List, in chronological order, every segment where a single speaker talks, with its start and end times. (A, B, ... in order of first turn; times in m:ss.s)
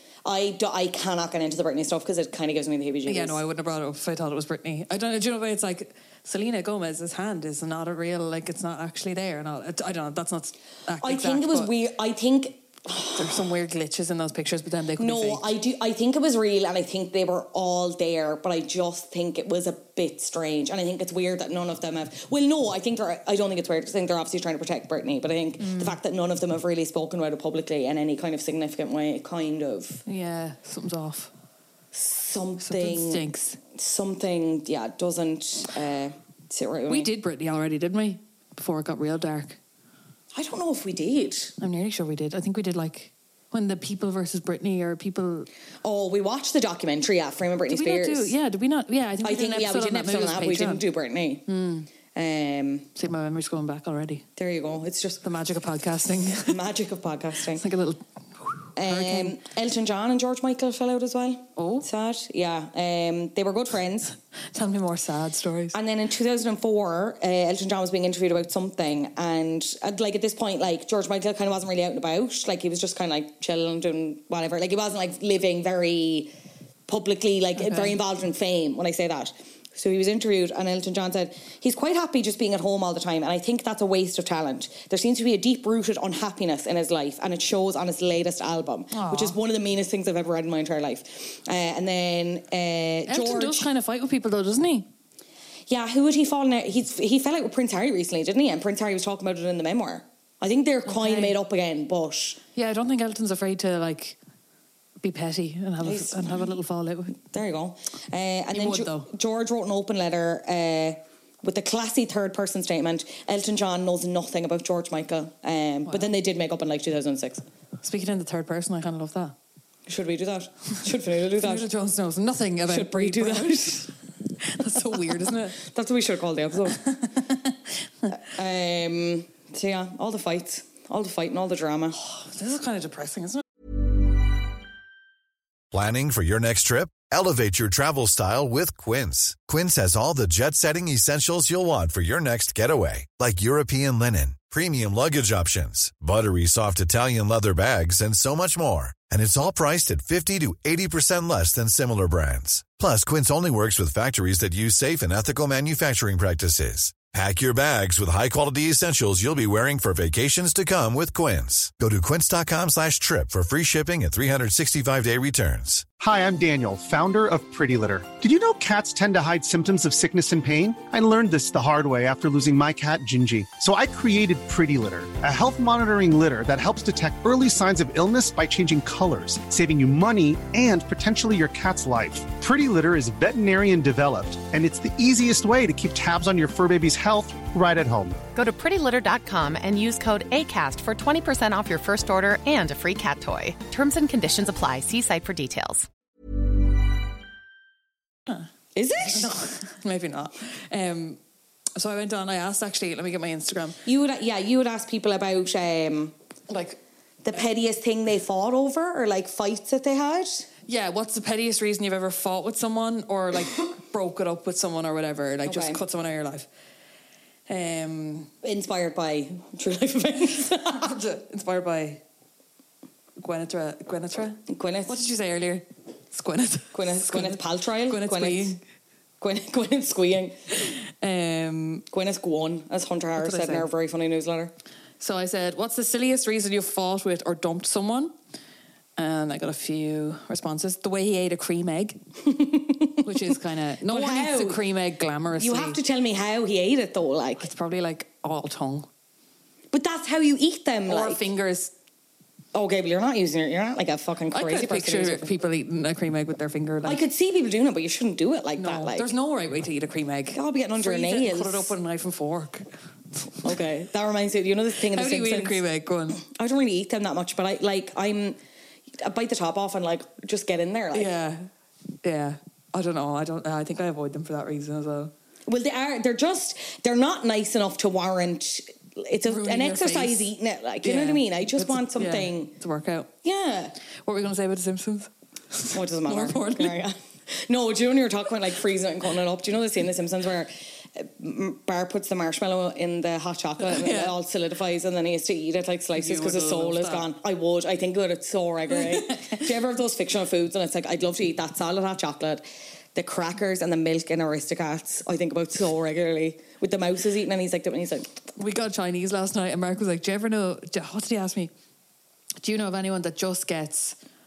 0:00.2-0:03.4 A
0:03.1-0:11.7 B
0:11.0-0:13.4 A
0:13.2-0:15.4 B
0:15.0-0:30.0 A
0:25.6-0:26.0 B
0:30.1-0:31.3 B
0:31.9-0:37.1 A
0:32.6-0:33.6 B
0:36.9-0:39.6 B
0:40.3-0:41.5 A
0:41.6-0:45.5 B
0:45.8-0:48.3 A
0:47.7-0:50.8 B
0:49.2-0:51.4 A
0:51.5-0:51.9 B
0:52.2-0:52.9 A
0:53.0-0:54.3 B
0:54.4-0:55.2 A
0:55.2-0:56.6 B
0:56.4-0:57.6 A
0:57.6-0:59.4 B
0:58.8-1:04.1 A
1:01.6-1:01.9 B
1:04.5-1:05.8 B
1:05.7-1:16.3 A
1:16.9-1:33.7 A
1:17.6-1:18.0 B
1:28.9-1:29.4 B
1:33.1-1:34.9 B
1:35.7-1:42.4 A
1:40.9-1:41.4 B
1:42.6-1:44.2 B
1:45.0-1:47.2 B
1:45.8-1:46.5 A
1:47.3-1:57.4 A
1:48.5-1:49.1 B
1:57.8-1:59.4 B
1:59.9-2:01.6 A
2:01.4-2:05.6 B
2:02.7-2:03.9 A
2:05.6-2:06.8 A
2:06.8-2:07.5 B
2:08.1-2:12.0 A
2:12.0-2:13.4 B
2:15.7-2:45.9 C
2:46.0-3:08.2 D
3:08.4-3:15.9 E
3:18.8-3:19.3 A
3:19.0-3:21.2 B
3:21.8-3:23.8 B
3:23.8-3:26.1 A
3:26.5-3:26.8 B
3:27.2-3:30.5 A
3:30.7-3:36.5 B
3:35.4-3:35.8 A
3:37.5-3:38.3 B
3:38.4-3:40.9 A
3:40.7-3:42.0 B
3:43.2-3:48.6 B
3:44.5-3:45.0 A
3:46.7-3:48.6 A
3:49.2-3:50.4 A
3:50.5-3:51.8 B
3:51.9-3:54.5 A
3:53.2-3:53.7 B
3:55.0-3:58.1 B
3:59.0-4:02.0 B
4:02.2-4:03.1 A
4:03.0-4:05.8 B
4:03.9-4:04.6 A
4:05.4-4:07.5 A
4:07.4-4:08.9 B
4:09.7-4:11.2 A
4:10.9-4:11.7 B
4:12.5-4:15.3 A
4:14.3-4:17.0 B
4:16.8-4:19.1 A
4:18.6-4:23.6 B
4:20.3-4:21.7 A
4:23.4-4:25.6 A
4:24.8-4:26.2 B
4:26.2-4:28.4 A
4:29.0-4:31.1 A
4:30.9-4:31.5 B
4:32.0-4:35.1 B
4:35.5-4:42.5 A
4:39.3-4:43.1 B
4:43.2-4:43.8 A
4:44.0-4:46.8 B
4:45.7-5:02.4 A
4:53.6-4:54.1 B
4:56.0-4:57.1 B
4:58.7-4:59.4 B
5:03.0-5:08.1 A
5:08.4-5:11.5 B
5:12.4-5:14.0 B